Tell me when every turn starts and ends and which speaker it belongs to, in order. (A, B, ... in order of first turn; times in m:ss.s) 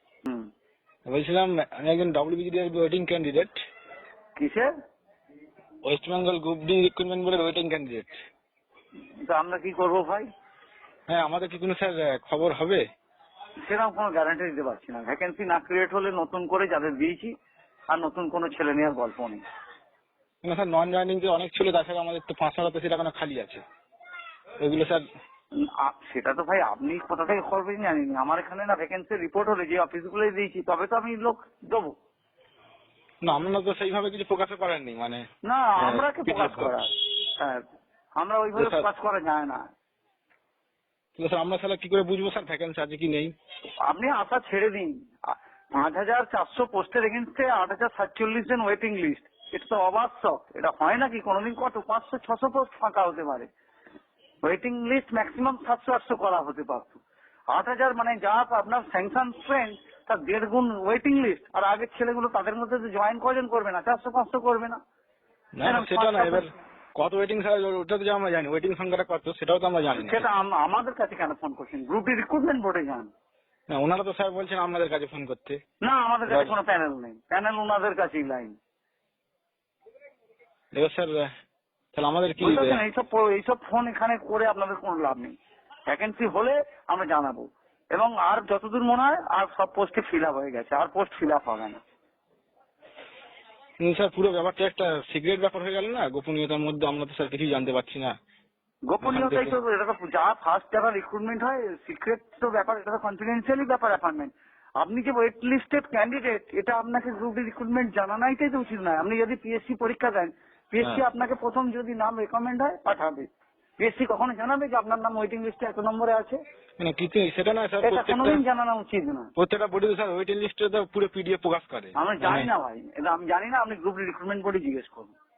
0:01.1-0:03.6 A
0:04.4-0:04.7 B
0:05.8-0:08.2 A
0:09.2-0:10.3 B
0:11.1-0:12.8 A
0:13.7-0:17.4 B
0:17.9-0:19.4 B
0:20.4-0:23.6 A
0:24.6-0:25.0 A
0:25.6-0:32.0 B
0:33.2-0:35.2 A
0:35.4-0:37.6 B
0:35.8-0:36.7 A
0:38.2-0:39.6 B
0:38.6-0:38.8 A
0:41.2-0:43.3 A
0:43.8-0:53.5 B
0:54.4-0:57.0 B
0:57.5-1:04.8 B
1:05.6-1:10.3 A
1:05.6-1:06.4 B
1:09.9-1:13.1 B
1:13.7-1:15.6 A
1:15.8-1:18.6 B
1:16.3-1:16.5 A
1:20.7-1:21.3 A
1:21.9-1:22.8 A
1:22.4-1:25.3 B
1:25.9-1:31.8 B
1:33.8-1:38.1 A
1:38.9-1:53.3 B
1:39.0-1:39.6 A
1:53.8-1:56.4 B
1:56.8-1:58.4 A
1:57.8-1:59.3 B
1:59.4-2:02.5 A
2:01.9-2:05.1 B